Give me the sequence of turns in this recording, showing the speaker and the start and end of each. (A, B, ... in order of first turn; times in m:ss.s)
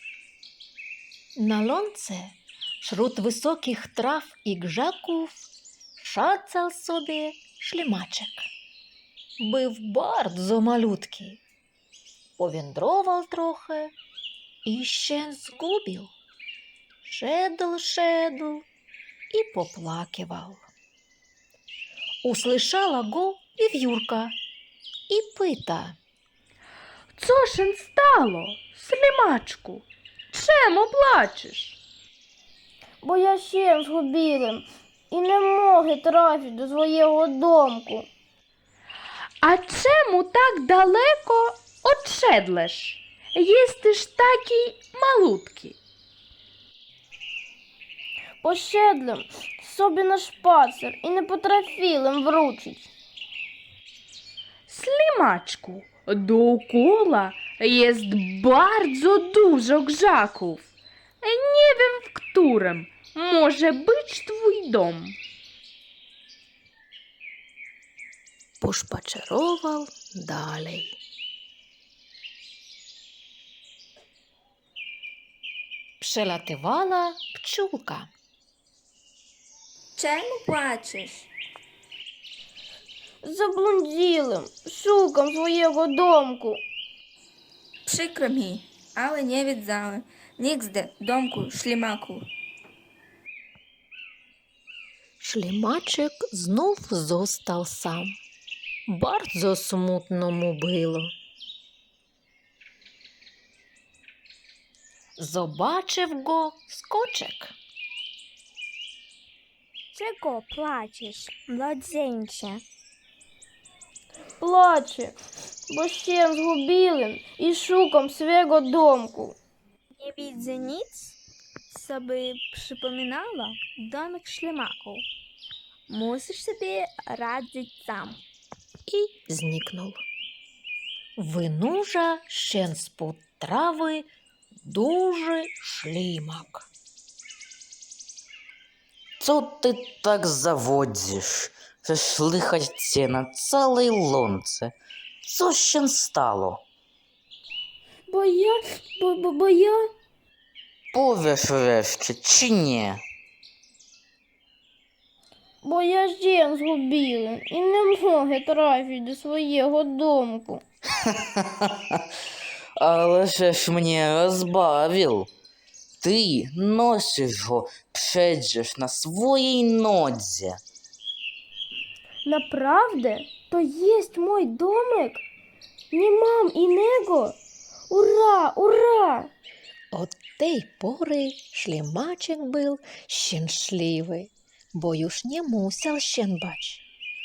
0:01.4-0:05.5 A
0:06.0-0:08.5 A
0:09.4-0:11.4 A
0:12.4-0:13.9 A
0:14.6-0:16.1 A
0:17.0-0:18.7 A
0:19.3-0:20.6 A
0:22.2-0:24.4 A
0:25.1-0:26.0 A
0:27.2-0:31.8 B
0:33.0-0:38.1 C
0:39.4-0:45.8 B
0:48.4-0:52.9 C
0:54.7-1:00.7 B
1:01.2-1:05.2 B
1:08.6-1:11.0 A
1:16.0-1:18.1 A
1:20.0-1:21.3 D
1:23.2-1:26.6 C
1:27.9-1:32.2 D
1:35.2-1:38.2 A
1:38.9-1:41.1 A
1:45.2-1:47.6 A
1:49.9-1:52.6 E
1:54.4-1:55.2 C
1:55.7-1:59.4 C
2:00.0-2:01.2 E
2:01.7-2:05.1 E
2:05.9-2:08.2 E
2:08.9-2:10.0 A
2:11.2-2:14.1 A
2:14.6-2:16.7 A
2:19.2-2:26.6 F
2:28.1-2:29.9 C
2:30.9-2:33.0 F
2:35.6-2:40.6 C
2:42.8-2:45.3 F
2:46.0-2:50.6 F
2:52.2-2:55.2 C
2:55.9-2:57.4 C
2:57.9-2:59.3 C
2:59.9-3:06.8 A